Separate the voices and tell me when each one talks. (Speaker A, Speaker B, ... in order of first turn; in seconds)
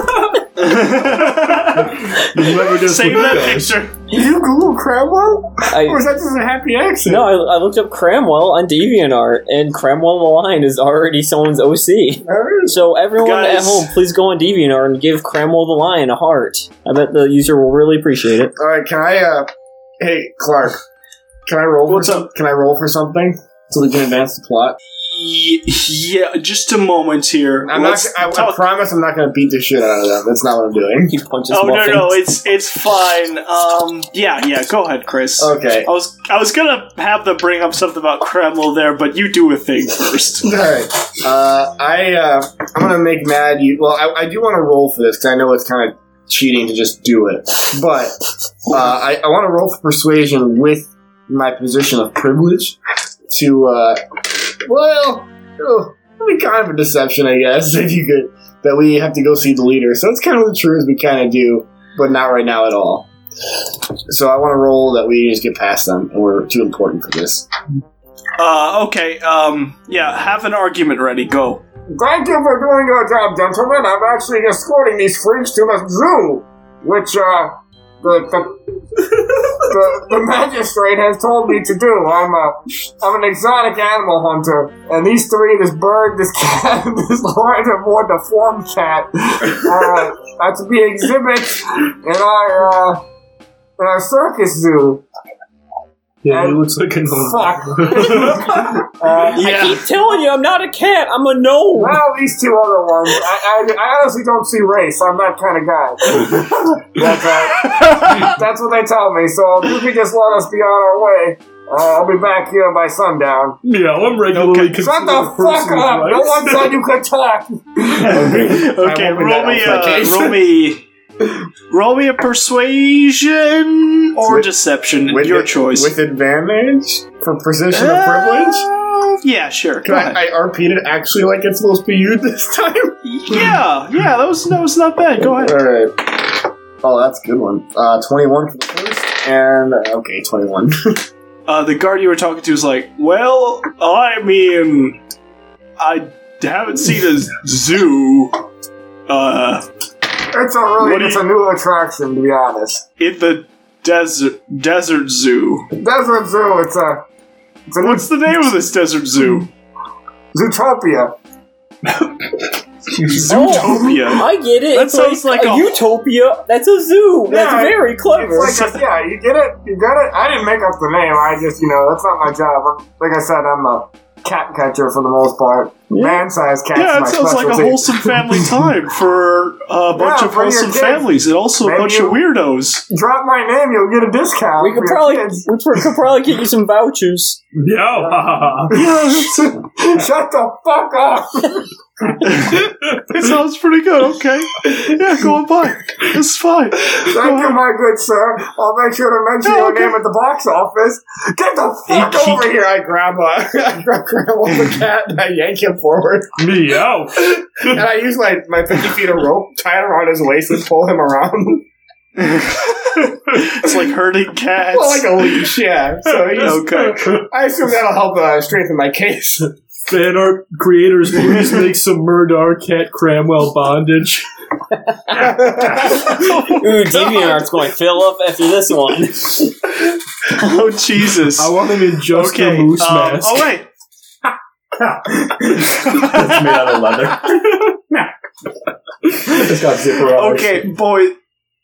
Speaker A: 0.6-2.0, 2.7-4.0, 13.2-13.9, 21.9-22.3, 25.0-28.6, 31.5-40.5, 68.4-71.6, 107.7-108.3, 114.3-114.8, 118.2-120.8, 121.7-125.9, 127.7-130.2, 133.0-135.6, 141.5-145.0, 145.8-148.4, 149.1-149.6, 150.8-151.2, 153.0-155.7, 157.8-159.5, 163.0-165.7, 168.4-168.8, 176.7-182.8, 192.2-197.6, 199.4-199.9, 201.9-202.5, 212.2-215.5, 216.3-217.0, 227.1-227.4, 230.3-233.7, 235.9-236.8, 240.0-241.1
Speaker B: 1.3-3.8, 96.2-98.9, 106.1-106.7, 113.6-116.8, 162.0-162.3, 187.6-188.8, 206.4-207.8, 216.2-217.2, 219.9-224.2, 231.4-233.5
Speaker C: 4.1-7.3, 12.2-12.8, 18.6-19.5, 20.0-20.8, 21.4-24.8, 27.6-31.1, 35.4-35.9, 40.4-52.8, 53.3-63.1, 64.1-67.5, 71.9-93.0, 93.8-95.0, 96.3-99.5, 101.8-113.6, 114.8-120.4, 124.2-124.5, 125.0-128.7, 129.8-133.4, 135.2-141.0, 150.3-152.8, 155.8-157.0, 157.7-158.1, 160.3-161.1, 167.3-178.3, 179.9-182.2, 182.9-185.4, 188.0-192.2, 196.9-206.4, 207.6-211.7, 214.7-219.5, 225.2-225.8
Speaker D: 5.7-6.0, 7.0-18.5, 31.1-32.2, 99.3-102.0, 163.2-168.6, 175.9-176.2, 184.6-187.4, 226.4-229.6
Speaker E: 235.5-238.1, 239.1-240.7